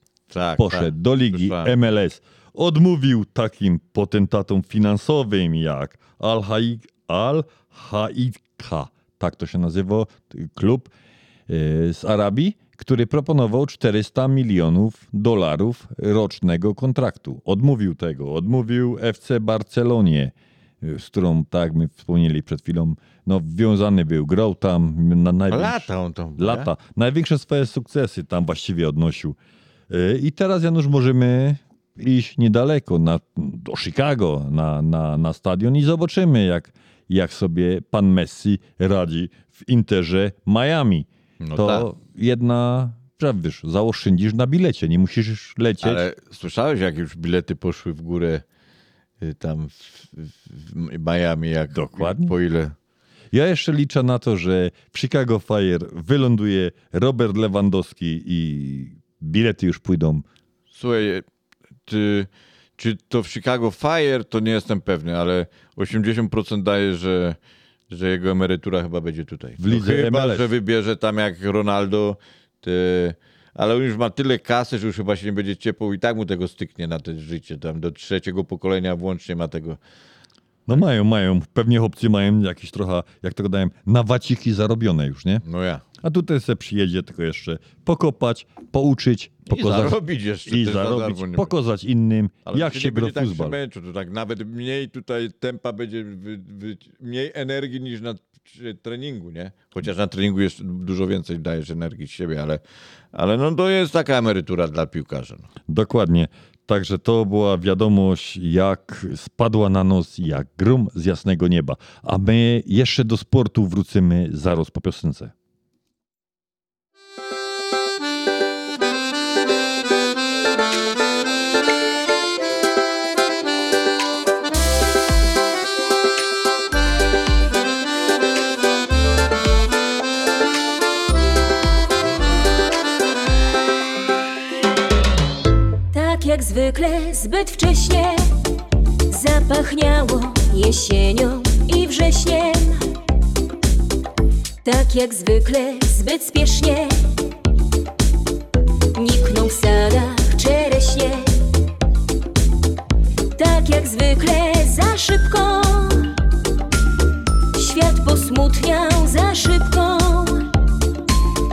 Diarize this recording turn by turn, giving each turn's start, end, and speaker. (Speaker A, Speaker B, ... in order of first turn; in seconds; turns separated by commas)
Speaker A: 0.3-1.7, Speaker B: 0.6-10.9, Speaker B: 11.5-29.4, Speaker A: 25.5-26.7, Speaker B: 29.9-46.0, Speaker A: 41.4-41.9, Speaker A: 45.8-48.4, Speaker A: 49.2-52.7, Speaker B: 51.7-52.3, Speaker B: 53.3-60.2, Speaker A: 60.7-61.2, Speaker A: 61.9-67.4, Speaker A: 67.9-79.8, Speaker B: 69.6-70.5, Speaker B: 80.7-85.4, Speaker A: 85.4-85.8, Speaker B: 86.0-93.5, Speaker A: 89.5-91.5, Speaker A: 92.5-102.6, Speaker A: 103.1-105.5, Speaker B: 105.7-115.3, Speaker C: 135.9-138.2, Speaker C: 139.1-142.8, Speaker C: 144.6-147.0, Speaker C: 148.9-151.3, Speaker C: 153.3-156.1, Speaker C: 157.5-160.5